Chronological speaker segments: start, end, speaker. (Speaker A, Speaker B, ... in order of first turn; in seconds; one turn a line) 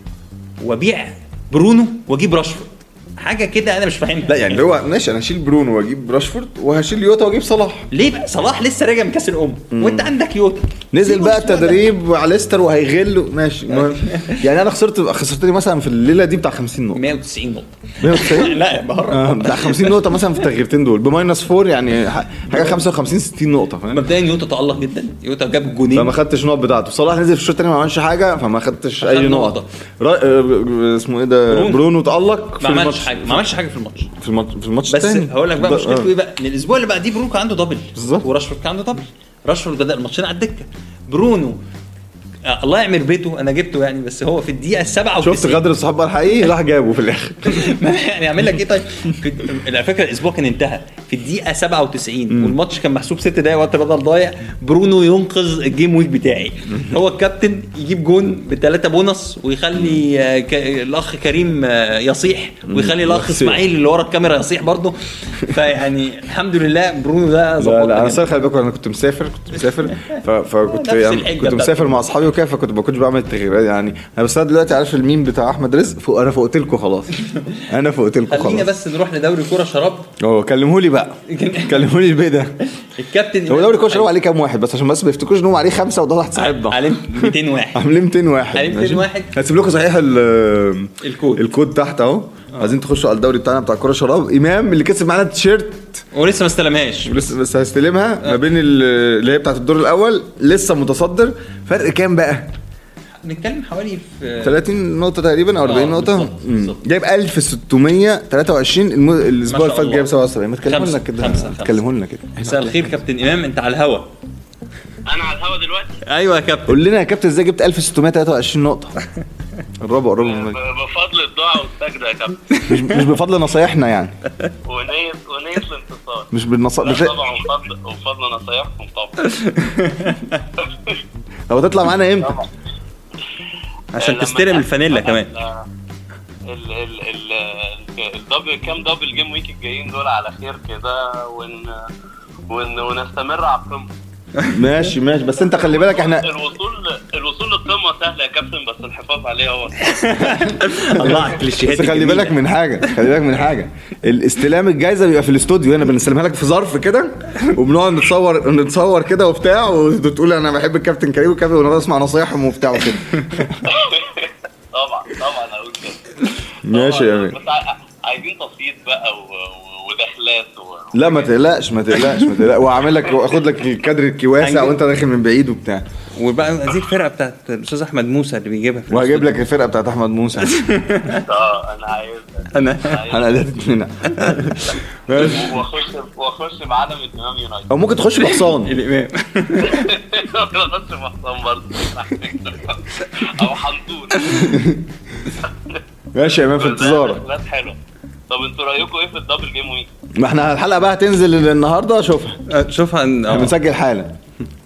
Speaker A: 0.6-4.7
Speaker B: 4.3-7.9
Speaker A: 7.9-11.8
Speaker B: 9.7-10.1
Speaker B: 10.9-17.0
Speaker A: 13.7-14.5
Speaker A: 16.9-20.5
Speaker B: 18.0-24.0
Speaker A: 22.5-22.9
Speaker A: 23.9-26.1
Speaker B: 25.9-33.5
Speaker A: 29.0-29.7
Speaker A: 31.5-31.8
Speaker A: 32.6-34.1
Speaker B: 34.1-36.1
Speaker A: 34.9-41.6
Speaker B: 37.9-38.3
Speaker A: 42.4-45.6
Speaker B: 45.2-47.7
Speaker A: 47.4-68.4
Speaker B: 52.3-52.5
Speaker B: 62.7-63.6
Speaker B: 67.6-78.7
Speaker A: 69.9-72.0
Speaker A: 77.2-77.6
Speaker A: 78.3-80.1
Speaker B: 80.2-82.6
Speaker A: 81.3-81.9
Speaker A: 82.7-84.1
Speaker B: 83.5-96.0
Speaker A: 86.3-87.9
Speaker A: 88.5-89.3
Speaker A: 91.0-91.5
Speaker A: 96.1-97.3
Speaker B: 97.0-102.5
Speaker A: 103.2-104.6
Speaker B: 104.4-112.9
Speaker A: 105.6-106.8
Speaker A: 109.5-110.1
Speaker A: 110.6-111.8
Speaker A: 112.4-114.1
Speaker C: 115.0-116.0
Speaker A: 116.0-116.8
Speaker B: 116.7-119.0
Speaker B: 119.8-120.6
Speaker C: 120.2-122.6
Speaker B: 122.6-124.2
Speaker C: 124.6-129.3
Speaker B: 126.3-127.1
Speaker A: 129.3-130.4
Speaker C: 130.6-131.0
Speaker B: 131.5-132.4
Speaker A: 133.9-135.3
Speaker C: 133.9-135.7
Speaker C: 136.5-141.9
Speaker C: 142.5-143.9
Speaker B: 144.5-146.3
Speaker C: 145.3-150.3
Speaker A: 149.8-153.0
Speaker B: 150.3-163.6
Speaker C: 163.6-166.2
Speaker B: 166.6-167.4
Speaker C: 166.7-171.3
Speaker B: 170.9-175.8
Speaker A: 174.4-174.8
Speaker A: 176.1-179.3
Speaker B: 178.9-180.6
Speaker A: 180.4-181.3
Speaker C: 181.2-183.3
Speaker A: 182.5-183.1
Speaker B: 183.1-185.5
Speaker A: 184.2-184.6
Speaker C: 185.1-187.7
Speaker B: 187.7-188.8
Speaker A: 188.2-190.0
Speaker C: 189.7-194.5
Speaker A: 194.2-194.5
Speaker B: 194.2-194.8
Speaker C: 195.4-195.8
Speaker B: 196.1-197.2
Speaker C: 196.4-197.8
Speaker C: 198.3-199.9
Speaker B: 200.1-202.4
Speaker A: 202.4-203.6
Speaker B: 203.3-204.2